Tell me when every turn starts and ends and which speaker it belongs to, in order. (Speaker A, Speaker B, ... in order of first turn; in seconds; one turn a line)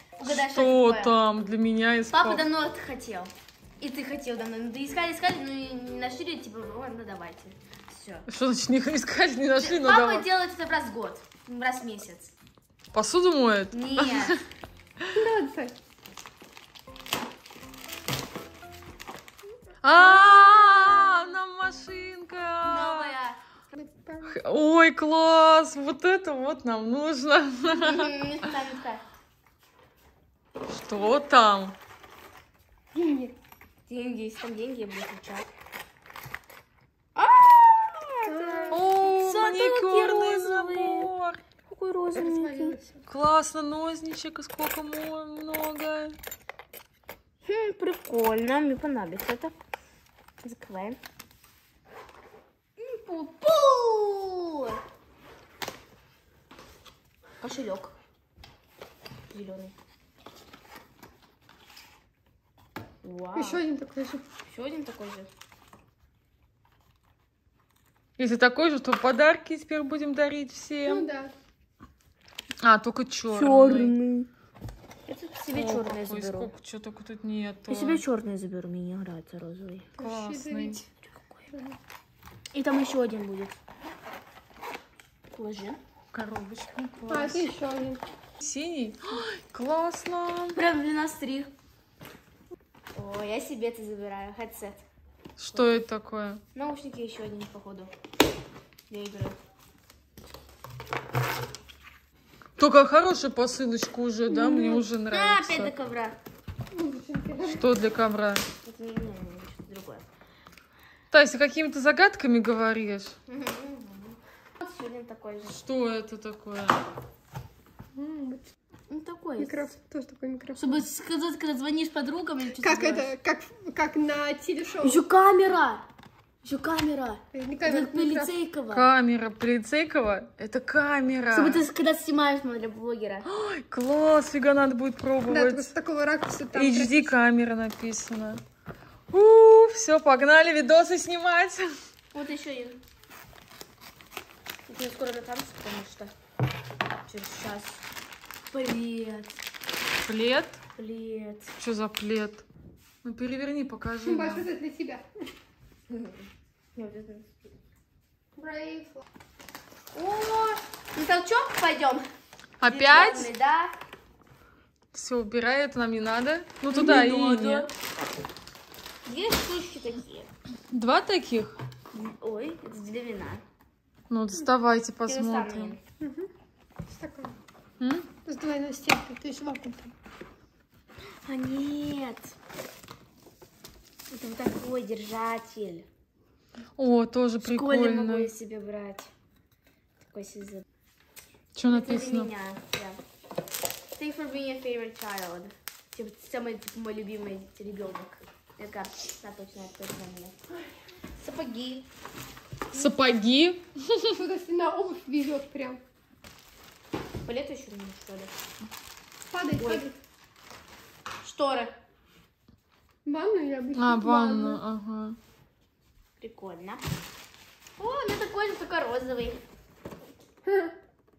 Speaker A: 0.2-1.2
Speaker B: 0.2-2.4
Speaker A: 2.1-8.2
Speaker B: 8.3-10.2
Speaker A: 9.6-12.3
Speaker B: 12.9-14.4
Speaker A: 13.7-14.4
Speaker C: 15.1-15.8
Speaker B: 19.8-23.1
Speaker A: 22.6-23.4
Speaker C: 23.7-24.3
Speaker B: 24.2-28.1
Speaker A: 27.7-29.0
Speaker B: 30.7-31.8
Speaker C: 32.9-33.4
Speaker A: 33.9-35.5
Speaker A: 37.1-41.1
Speaker C: 38.3-39.1
Speaker B: 38.7-41.4
Speaker A: 41.7-42.8
Speaker C: 42.1-43.0
Speaker B: 43.1-46.2
Speaker A: 47.4-49.5
Speaker A: 50.4-51.0
Speaker A: 52.8-54.8
Speaker A: 57.4-58.0
Speaker A: 59.3-59.7
Speaker A: 63.0-63.6
Speaker C: 63.4-64.3
Speaker A: 64.5-65.3
Speaker B: 68.2-71.1
Speaker C: 70.8-71.3
Speaker B: 72.6-74.0
Speaker A: 73.3-74.3
Speaker A: 75.1-76.5
Speaker B: 75.5-78.0
Speaker A: 77.7-79.9
Speaker C: 80.0-80.8
Speaker B: 80.0-80.8
Speaker A: 81.0-81.5
Speaker C: 81.5-81.8
Speaker A: 82.5-83.6
Speaker A: 85.3-85.8
Speaker B: 86.1-87.4
Speaker C: 87.1-88.0
Speaker B: 88.4-90.6
Speaker A: 90.5-91.5
Speaker A: 92.9-94.8
Speaker B: 95.4-96.4
Speaker A: 95.5-95.8
Speaker A: 96.5-97.9
Speaker A: 98.9-99.4
Speaker B: 102.6-105.7
Speaker A: 104.3-106.2
Speaker C: 106.7-107.7
Speaker B: 107.5-108.5
Speaker A: 108.7-110.0
Speaker B: 111.1-113.2
Speaker A: 113.3-115.6
Speaker B: 115.5-116.8
Speaker C: 118.0-118.5
Speaker A: 118.9-119.7
Speaker C: 119.4-120.8
Speaker A: 120.6-123.1
Speaker C: 122.6-125.0
Speaker A: 124.8-125.9
Speaker A: 126.4-128.9
Speaker C: 127.3-128.3
Speaker B: 128.7-131.6
Speaker A: 131.3-133.3
Speaker B: 133.2-135.7
Speaker C: 135.3-137.2
Speaker B: 136.5-138.4
Speaker B: 139.1-141.7
Speaker A: 142.1-142.8
Speaker A: 144.7-146.1
Speaker A: 147.1-147.8
Speaker A: 148.5-149.4
Speaker B: 150.1-150.6
Speaker A: 150.8-151.5
Speaker B: 151.6-152.4
Speaker B: 153.0-154.5
Speaker C: 154.1-155.1
Speaker A: 155.9-157.5
Speaker C: 158.4-159.0
Speaker A: 159.9-162.1
Speaker B: 162.6-163.3
Speaker A: 162.6-163.8
Speaker B: 164.9-167.7
Speaker A: 166.7-167.7
Speaker A: 169.1-170.3
Speaker B: 170.7-171.6
Speaker A: 171.9-173.4
Speaker B: 174.1-175.8
Speaker A: 175.1-175.8
Speaker C: 176.0-176.3
Speaker C: 176.9-177.3
Speaker B: 177.8-178.1
Speaker C: 178.2-179.9
Speaker A: 181.2-182.3
Speaker A: 184.1-185.9
Speaker B: 186.8-188.3
Speaker A: 187.4-189.1
Speaker A: 190.0-190.7
Speaker B: 191.6-192.3
Speaker A: 191.7-193.0
Speaker A: 193.9-200.4
Speaker A: 201.2-201.9
Speaker B: 202.7-204.1
Speaker C: 204.2-205.8
Speaker A: 207.2-208.3
Speaker C: 209.3-210.0
Speaker A: 209.6-209.9
Speaker A: 211.2-211.8
Speaker C: 213.1-214.6
Speaker B: 213.8-215.2
Speaker A: 216.2-216.8
Speaker A: 217.8-219.4
Speaker C: 220.4-220.7